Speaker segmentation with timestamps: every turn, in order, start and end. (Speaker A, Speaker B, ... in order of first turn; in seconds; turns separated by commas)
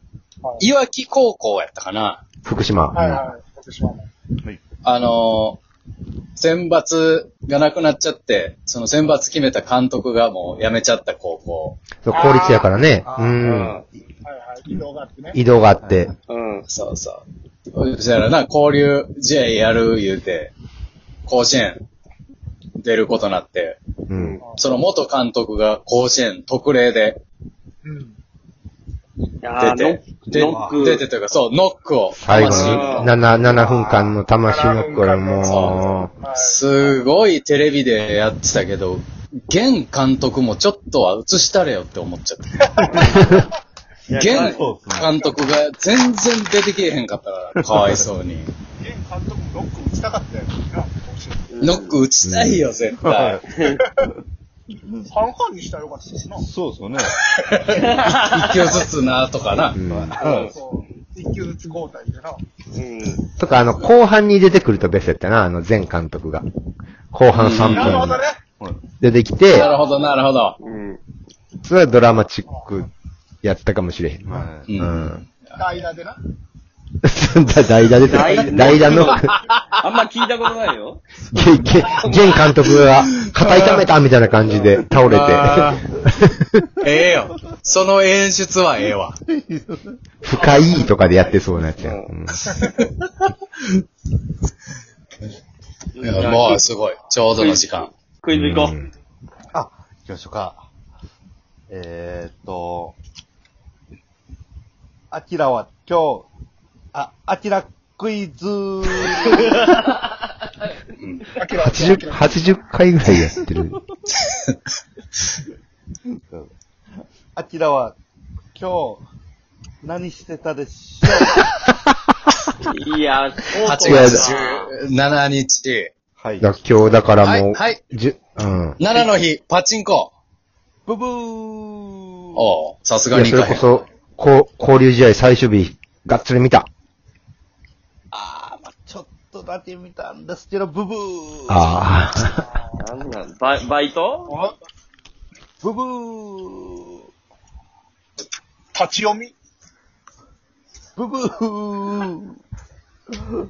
Speaker A: 0.4-0.7, Speaker B: 0.6-2.2, Speaker C: 2.4-3.2, Speaker A: 2.9-4.1, Speaker B: 4.8-5.6, Speaker B: 6.3-11.8, Speaker C: 12.0-13.8, Speaker A: 12.1-12.7, Speaker D: 13.0-13.8, Speaker E: 13.4-13.8, Speaker A: 14.2-15.4, Speaker C: 15.3-16.1, Speaker D: 15.8-16.1, Speaker E: 16.3-16.6, Speaker B: 16.7-20.5, Speaker B: 21.2-21.8, Speaker B: 22.8-23.8, Speaker C: 24.1-24.4, Speaker E: 24.1-24.4, Speaker A: 24.4-24.6, Speaker B: 24.6-27.2, Speaker A: 27.8-28.1, Speaker E: 29.4-31.0, Speaker B: 29.5-33.2, Speaker D: 30.3-31.0, Speaker C: 32.1-36.1, Speaker E: 32.3-33.1, Speaker A: 33.4-37.0, Speaker B: 35.4-35.8, Speaker B: 36.4-42.8, Speaker A: 42.7-43.4, Speaker D: 42.8-43.4, Speaker D: 44.1-45.2, Speaker E: 44.1-44.6, Speaker B: 44.2-48.5, Speaker A: 45.0-45.3, Speaker D: 47.6-48.0, Speaker A: 48.8-51.7, Speaker E: 51.5-52.0, Speaker B: 51.6-53.0, Speaker C: 52.2-52.6, Speaker D: 53.0-53.5, Speaker E: 53.0-53.8, Speaker A: 55.1-56.4, Speaker D: 56.4-57.2, Speaker B: 57.3-59.8, Speaker E: 57.7-58.8, Speaker C: 59.7-60.2, Speaker D: 59.9-60.5, Speaker E: 60.2-60.5, Speaker A: 60.2-62.4, Speaker E: 62.7-63.2, Speaker C: 63.4-66.5, Speaker C: 67.1-68.2, Speaker B: 67.3-68.1, Speaker A: 67.6-68.4, Speaker C: 69.0-69.7, Speaker B: 69.5-70.5, Speaker A: 69.6-70.1, Speaker E: 70.6-71.0, Speaker C: 71.6-72.9, Speaker A: 72.5-72.8, Speaker C: 73.4-75.2, Speaker D: 74.2-75.2, Speaker B: 74.7-75.0, Speaker A: 75.5-76.2, Speaker C: 77.0-79.3, Speaker E: 78.0-79.1, Speaker D: 78.2-79.2, Speaker E: 79.8-81.0, Speaker C: 81.3-86.6, Speaker D: 81.5-81.9, Speaker B: 85.0-85.9, Speaker B: 86.8-89.1, Speaker D: 89.2-90.0, Speaker C: 90.2-92.5, Speaker E: 91.8-92.1, Speaker E: 95.9-96.6, Speaker B: 96.0-97.9, Speaker E: 98.2-98.7, Speaker C: 98.3-98.9, Speaker D: 99.5-100.6, Speaker D: 101.7-103.0, Speaker D: 105.1-106.3, Speaker D: 106.9-109.7, Speaker B: 111.0-111.2, Speaker A: 111.4-112.4, Speaker C: 111.6-113.8, Speaker D: 116.1-116.5, Speaker D: 117.3-118.0, Speaker D: 118.5-119.0, Speaker D: 119.8-121.4, Speaker E: 122.6-124.7, Speaker B: 123.6-125.9, Speaker D: 123.6-124.1, Speaker C: 123.8-124.2, Speaker D: 126.2-126.5, Speaker C: 126.4-128.8, Speaker B: 127.2-127.8, Speaker B: 128.8-130.1, Speaker D: 130.8-132.5, Speaker B: 132.3-133.7, Speaker C: 133.1-136.7, Speaker D: 138.1-141.8, Speaker C: 141.5-142.4, Speaker A: 142.3-142.8, Speaker E: 142.8-144.3, Speaker A: 144.3-144.5, Speaker D: 145.6-147.1, Speaker A: 148.7-149.3, Speaker D: 150.9-152.4